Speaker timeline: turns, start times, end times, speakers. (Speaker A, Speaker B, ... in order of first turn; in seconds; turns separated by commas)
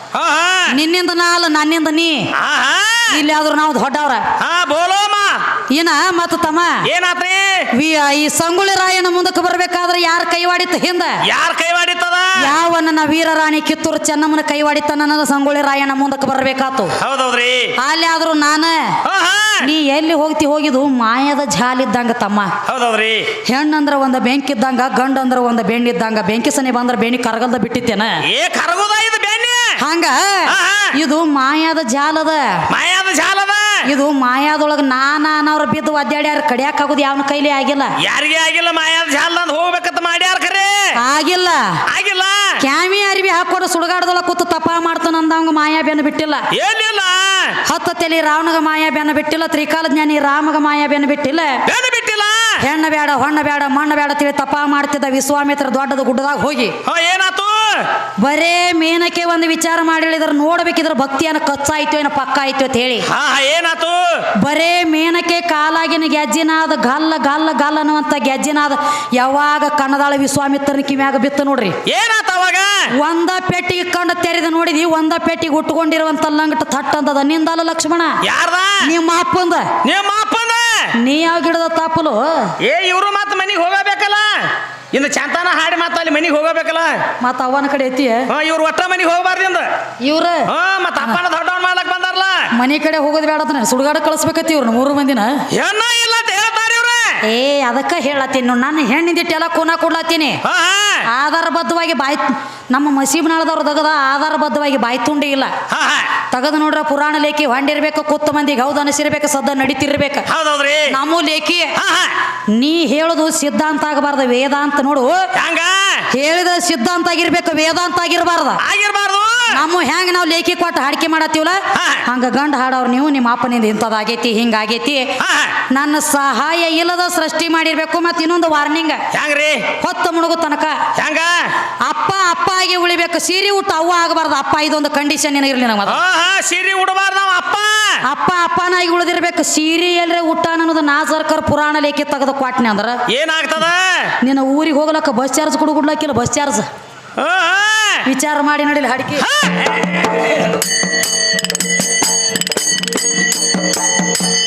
Speaker A: 0.1-0.8, Speaker B: 0.7-2.3, Speaker A: 2.4-3.2, Speaker B: 3.1-4.3, Speaker A: 4.4-5.4, Speaker B: 5.7-6.8, Speaker A: 6.8-7.7, Speaker B: 7.7-11.2, Speaker A: 11.2-12.5, Speaker B: 12.4-16.9, Speaker A: 17.0-17.8, Speaker B: 17.8-19.0, Speaker A: 19.0-19.7, Speaker B: 19.6-22.6, Speaker A: 22.7-23.3, Speaker B: 23.5-28.2, Speaker A: 28.3-29.8, Speaker B: 29.8-32.6, Speaker A: 30.5-31.0, Speaker A: 32.7-33.8, Speaker B: 33.9-38.0, Speaker A: 38.0-40.9, Speaker B: 41.0-41.8, Speaker A: 41.9-42.6, Speaker B: 42.6-46.5, Speaker A: 46.5-47.6, Speaker B: 47.7-51.6, Speaker A: 51.7-52.6, Speaker B: 52.6-56.8, Speaker A: 56.9-57.9, Speaker B: 58.2-63.1, Speaker A: 63.1-64.2, Speaker B: 64.4-71.8, Speaker A: 71.9-72.9, Speaker B: 73.0-78.2, Speaker A: 78.2-78.9, Speaker B: 78.8-79.7, Speaker A: 79.8-80.9, Speaker B: 81.0-82.5, Speaker A: 82.6-87.0, Speaker B: 87.2-88.3, Speaker A: 88.3-89.7, Speaker B: 90.0-90.5, Speaker A: 90.5-92.5, Speaker B: 92.5-95.4, Speaker A: 95.5-97.2, Speaker B: 97.2-100.4, Speaker A: 100.4-101.1, Speaker B: 101.1-105.5, Speaker A: 105.7-106.1, Speaker B: 106.3-110.3, Speaker A: 110.3-111.0, Speaker B: 110.9-111.7, Speaker A: 111.8-112.2, Speaker B: 112.5-115.3, Speaker A: 115.3-116.1, Speaker B: 116.1-118.6, Speaker A: 118.6-119.6, Speaker B: 119.5-125.1, Speaker A: 121.7-122.0, Speaker A: 125.2-125.6, Speaker B: 125.7-129.0, Speaker A: 129.1-129.7, Speaker B: 129.8-130.8, Speaker A: 130.9-131.5, Speaker B: 131.8-136.0, Speaker A: 135.9-138.0, Speaker B: 138.1-143.0, Speaker A: 143.1-144.2, Speaker B: 144.2-146.7, Speaker A: 147.2-148.1, Speaker B: 148.1-149.3, Speaker A: 149.2-150.5